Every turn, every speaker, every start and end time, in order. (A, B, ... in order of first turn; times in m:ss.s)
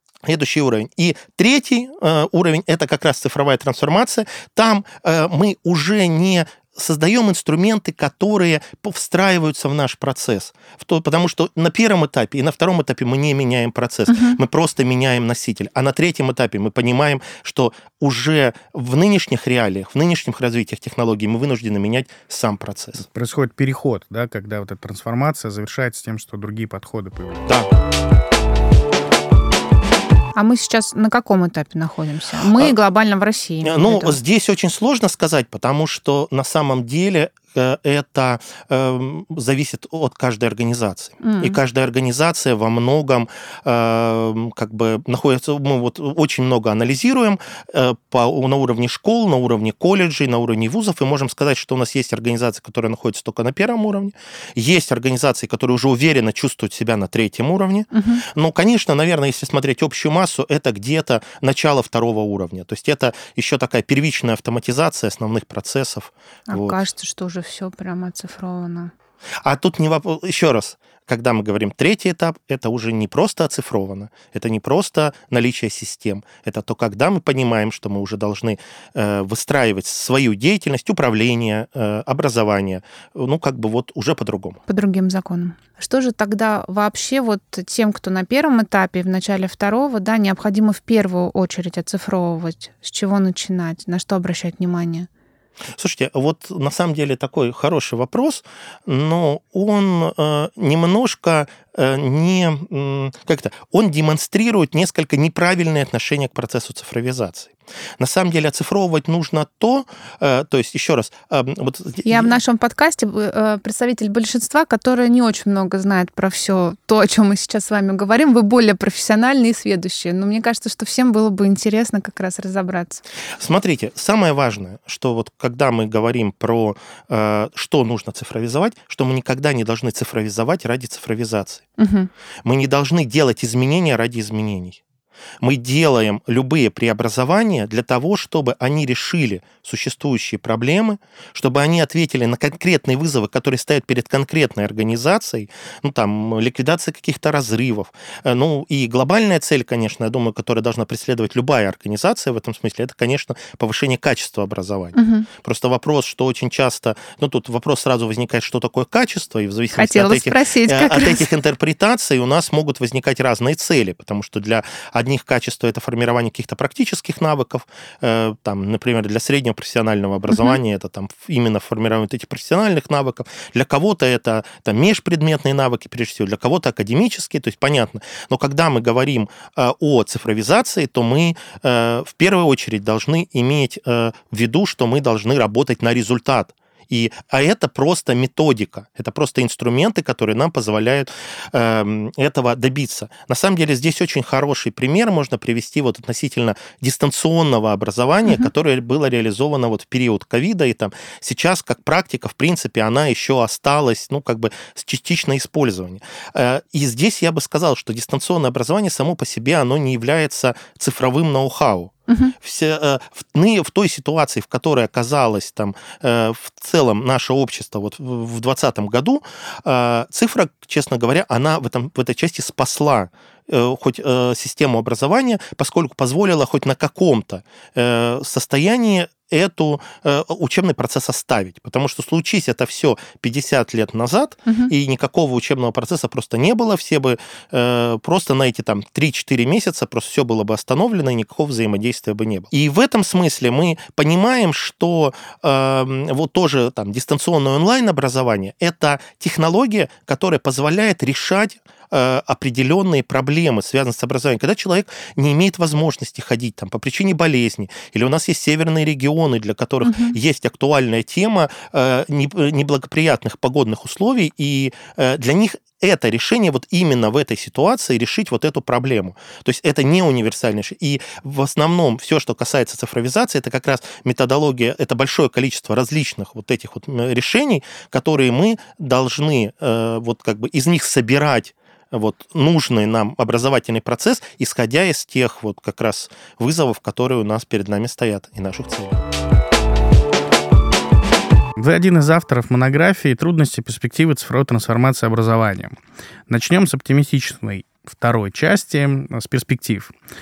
0:00.2-0:23.0 A
0:14.1-0:14.4 B
0:23.0-0:27.4 C
0:30.3-0:34.2 B
0:33.6-1:06.8 A
0:41.2-0:41.6 B
0:57.9-0:58.2 B
1:06.5-1:08.9 B
1:09.4-1:24.6 A
1:24.7-1:35.1 B
1:35.7-1:52.4 A
1:52.0-2:03.0 B
2:03.4-2:11.6 A
2:11.8-2:12.1 B
2:12.4-2:14.8 A
2:15.4-4:49.0 A
2:34.9-2:35.3 B
2:39.7-2:41.3 B
3:32.1-3:32.3 B
3:54.4-3:54.7 B
4:19.8-4:20.2 B
4:51.6-4:55.8 C
4:56.3-4:59.9 C